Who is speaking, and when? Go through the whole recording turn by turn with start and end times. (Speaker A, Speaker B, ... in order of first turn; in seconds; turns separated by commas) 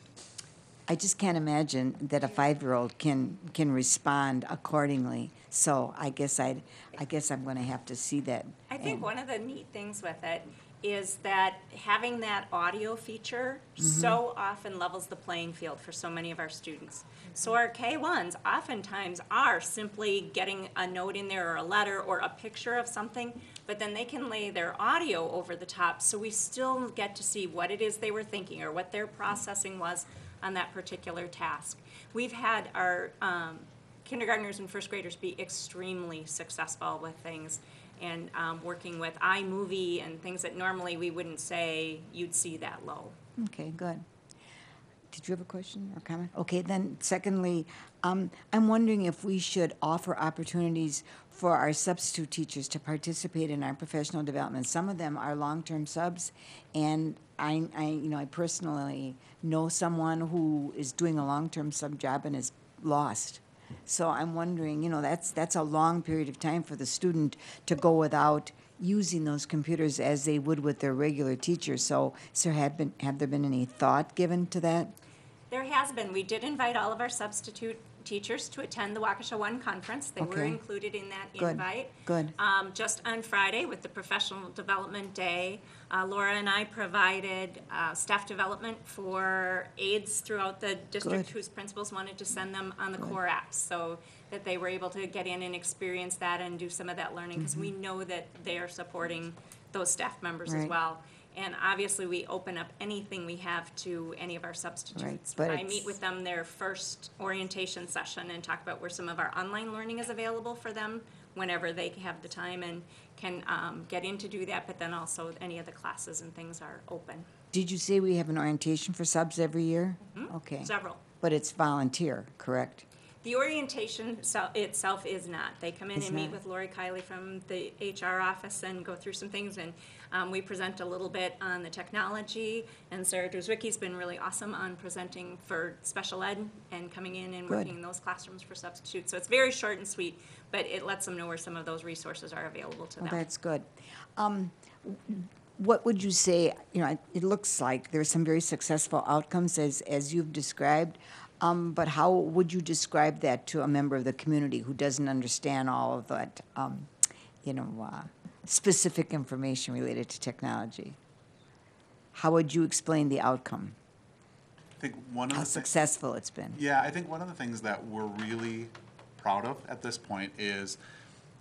Speaker A: 0.9-9.1, Speaker B: 8.7-43.2, Speaker A: 13.8-14.2, Speaker A: 43.4-44.0, Speaker A: 45.1-75.0, Speaker B: 75.5-117.3, Speaker A: 80.2-80.6, Speaker A: 81.4-82.3, Speaker A: 91.0-91.3, Speaker A: 97.4-97.7, Speaker A: 100.5-100.8, Speaker A: 105.0-106.0, Speaker A: 117.5-122.9, Speaker B: 120.1-121.0, Speaker B: 123.2-143.2, Speaker A: 126.0-126.4, Speaker A: 137.5-137.7, Speaker A: 143.0-156.9, Speaker A: 157.4-161.0, Speaker A: 162.1-163.8, Speaker C: 164.8-165.7, Speaker A: 165.3-166.6, Speaker C: 166.6-170.8